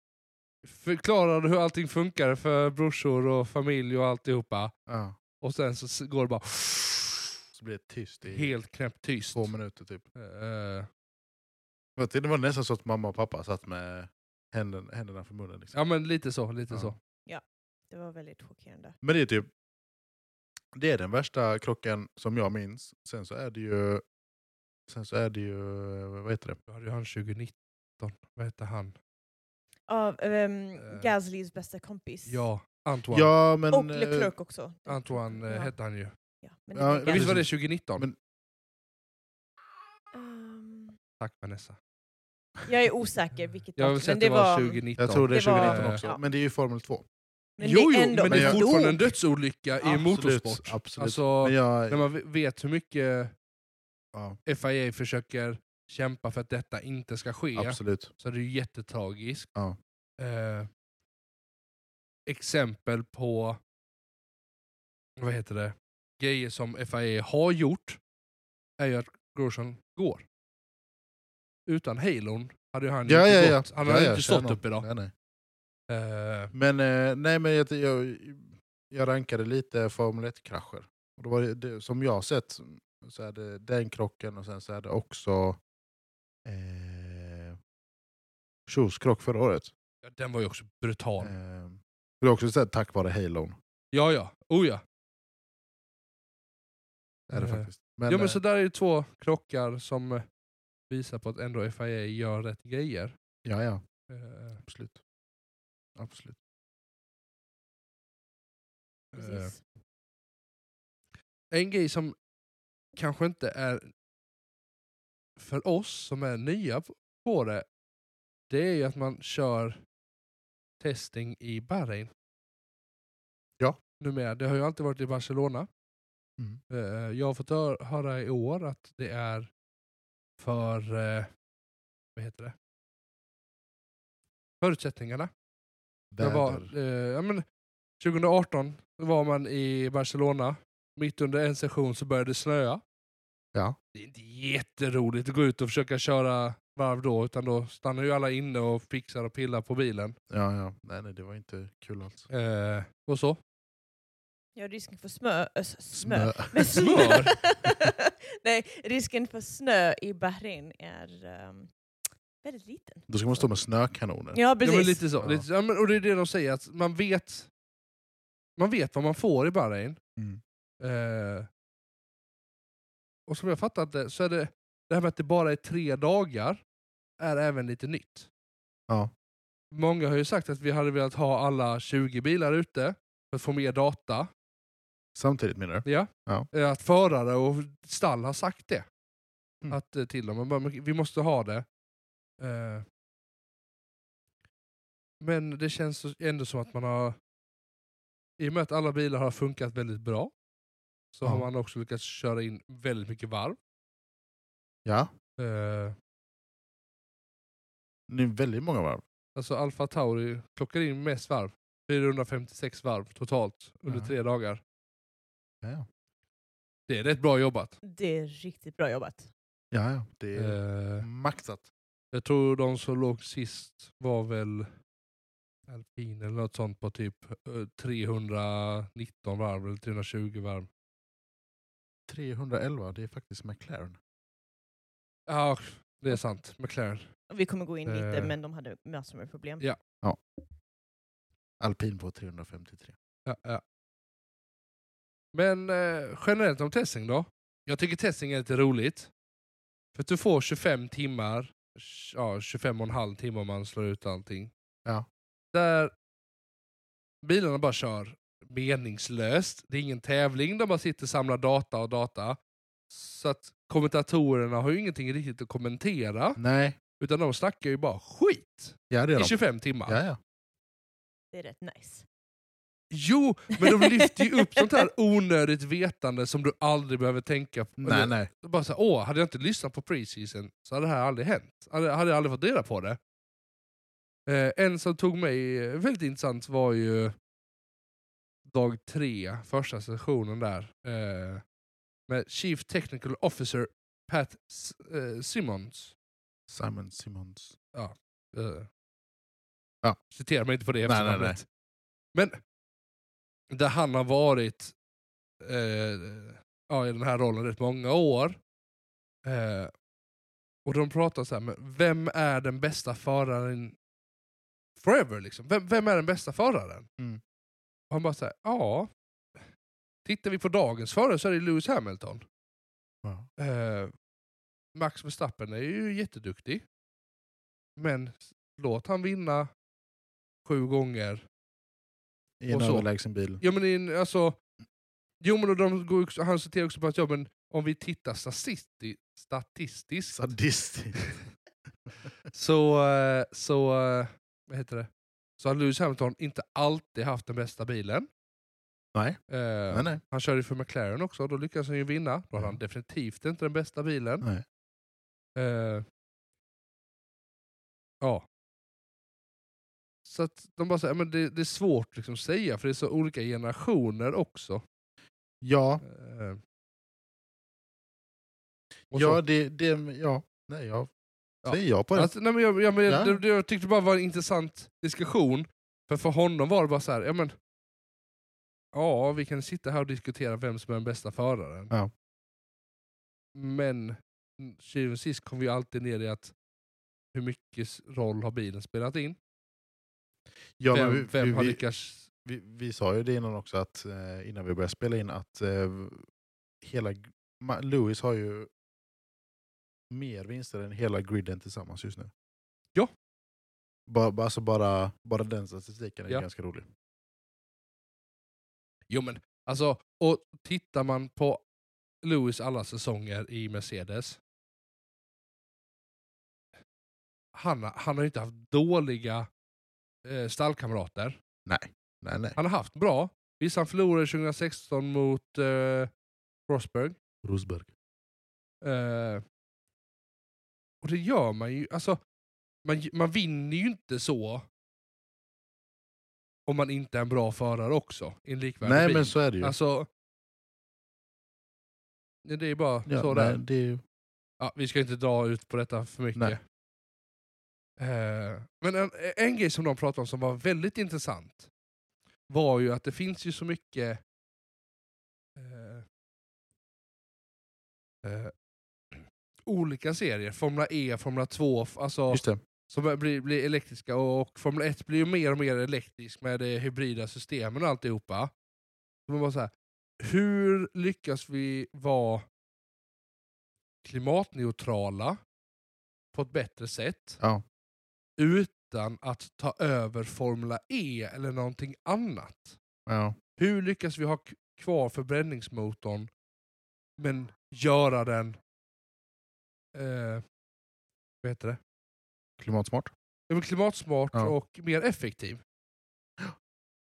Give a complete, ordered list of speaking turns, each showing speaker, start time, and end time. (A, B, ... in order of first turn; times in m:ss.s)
0:00.6-0:04.7 A
0:04.9-0:05.2 B
0:05.4-0:07.4 A
0:07.5-0:08.5 B
0:08.3-0:09.5 A
0:09.3-0:10.0 B
0:10.2-0:10.9 A
0:12.0-0:15.7 B
0:15.7-0:17.0 A
0:17.3-0:18.9 C
0:19.0-0:19.5 B
0:20.8-0:24.0 B
0:24.9-0:26.6 B
0:26.7-0:28.9 A
0:29.9-0:32.4 C
0:30.8-0:31.1 A
0:32.3-0:33.3 A
0:33.1-0:34.3 B
0:33.7-0:35.7 C
0:34.9-0:36.1 A
0:36.4-0:37.3 C
0:36.8-0:38.2 B
0:37.1-0:38.1 A
0:40.1-0:41.0 C
0:41.2-0:41.8 A
0:42.7-0:46.2 C
0:43.8-0:46.0 A
0:45.0-0:47.0 B
0:47.6-0:49.1 C
0:47.6-0:53.3 A
0:48.2-0:48.6 B
0:49.8-0:52.0 B
0:54.4-0:59.5 A
0:57.6-0:58.1 B
1:00.2-1:00.7 A
1:02.3-1:03.6 A
1:05.2-1:08.0 A
1:08.8-1:10.2 A
1:11.7-1:14.9 A
1:13.1-1:15.1 B
1:15.9-1:16.5 A
1:16.5-1:25.6 B
1:26.4-1:27.6 B
1:28.7-1:29.7 B
1:30.0-1:31.3 A
1:31.2-1:33.6 B
1:33.9-1:34.8 A
1:37.3-1:40.2 A
1:37.3-1:38.4 B
1:40.9-1:43.2 A
1:43.4-1:43.8 B
1:44.1-1:44.6 A
1:44.6-1:45.0 B
1:46.0-1:46.4 B
1:49.1-1:49.5 A
1:49.2-1:49.6 C
1:51.5-1:52.2 A
1:53.0-1:53.9 A
1:55.4-1:57.6 A
1:58.5-1:59.8 A
2:00.8-2:02.1 A
2:04.0-2:05.7 A
2:06.7-2:09.5 A
2:10.4-2:11.3 A
2:12.2-2:12.5 A
2:14.6-2:15.3 A
2:16.1-2:16.7 B
2:16.2-2:17.4 A
2:18.0-2:22.8 A
2:23.9-2:30.2 A
2:30.3-2:32.3 B
2:32.3-2:33.4 A
2:34.6-2:41.7 C
2:35.9-2:36.8 B
2:36.7-2:37.3 A
2:42.4-2:43.5 C
2:43.1-2:44.4 B
2:44.3-2:45.0 C
2:44.6-2:47.5 A
2:45.2-2:45.4 B
2:48.6-2:50.0 A
2:50.8-2:51.5 A
2:53.3-2:56.6 A
2:57.2-2:58.3 A
2:59.7-3:04.3 A
3:05.2-3:06.5 B
3:05.8-3:08.8 A
3:09.7-3:11.6 A
3:12.4-3:12.8 A
3:15.2-3:17.2 A
3:18.4-3:20.3 A
3:21.1-3:23.6 A
3:25.4-3:25.9 A
3:28.1-3:29.0 B
3:29.4-3:34.6 A
3:33.9-3:34.1 B
3:36.9-3:37.8 A
3:37.8-3:39.3 C
3:39.7-3:41.7 B
3:40.3-3:41.1 A
3:42.1-3:44.7 A
3:45.7-3:50.7 A
3:52.1-3:54.0 B
3:55.3-3:57.1 A
3:57.3-3:59.6 C
3:57.8-3:58.3 A
4:01.6-4:02.9 B
4:03.3-4:03.6 A
4:05.3-4:09.1 A
4:09.9-4:14.5 A
4:15.5-4:15.9 A
4:17.2-4:22.4 A
4:22.9-4:26.4 A
4:26.4-4:26.8 B
4:27.0-4:30.0 A
4:28.9-4:29.3 B
4:29.9-4:30.2 B
4:31.3-4:32.0 C
4:32.9-4:43.0 A
4:33.6-4:34.8 C
4:37.8-4:38.3 B
4:44.3-4:47.2 A
4:48.4-4:51.4 A
4:52.1-4:55.9 A
4:56.5-4:57.6 B
4:57.7-4:58.7 A
5:00.1-5:01.4 A
5:00.8-5:01.4 B
5:03.5-5:04.7 A
5:05.4-5:08.4 A
5:09.2-5:09.7 A
5:10.6-5:13.8 A
5:14.8-5:16.9 A
5:17.9-5:18.9 A
5:20.0-5:22.2 A
5:23.4-5:23.9 A
5:24.8-5:26.6 A
5:27.8-5:29.5 A
5:30.4-5:31.2 A
5:32.4-5:33.4 B
5:32.5-5:32.8 A
5:33.4-5:34.4 A
5:35.2-5:40.2 A
5:40.1-5:41.0 B
5:42.3-5:44.9 A
5:45.4-5:48.1 A
5:49.3-5:54.2 A
5:49.7-5:50.0 B
5:55.4-5:55.8 A
6:00.0-6:04.6 A
6:05.4-6:05.8 B
6:05.8-6:06.4 A
6:08.9-6:09.2 A
6:08.9-6:10.9 B
6:11.4-6:12.1 B
6:11.4-6:17.3 A
6:12.8-6:13.2 B
6:18.7-6:21.7 A
6:23.4-6:26.3 A
6:27.1-6:29.2 A
6:30.6-6:31.6 B
6:30.7-6:32.1 A
6:32.2-6:36.1 B
6:36.6-6:38.5 B
6:39.9-6:42.1 B
6:43.9-6:46.7 B
6:48.9-6:51.4 A
6:52.0-6:54.2 A
6:57.3-6:59.3 A
7:00.0-7:01.2 A
7:01.4-7:02.4 B
7:02.4-7:05.9 A
7:06.5-7:07.0 A
7:07.2-7:07.7 B
7:08.6-7:09.2 A
7:10.8-7:12.0 A
7:12.6-7:14.4 A
7:16.5-7:19.9 A
7:18.6-7:19.6 B
7:22.2-7:23.4 A
7:22.9-7:23.8 B
7:24.4-7:26.4 A
7:27.8-7:31.5 A
7:32.3-7:34.0 A
7:35.4-7:35.8 A
7:38.0-7:38.3 A
7:38.9-7:48.3 A
7:42.1-7:42.4 B
7:49.1-7:52.2 A
7:53.8-7:55.2 A
7:56.1-7:57.2 A
7:58.2-8:02.6 A
8:02.9-8:03.2 B
8:03.4-8:06.1 A
8:07.0-8:08.4 A
8:09.7-8:10.2 A
8:11.2-8:11.6 A
8:12.4-8:12.9 B
8:13.3-8:15.4 A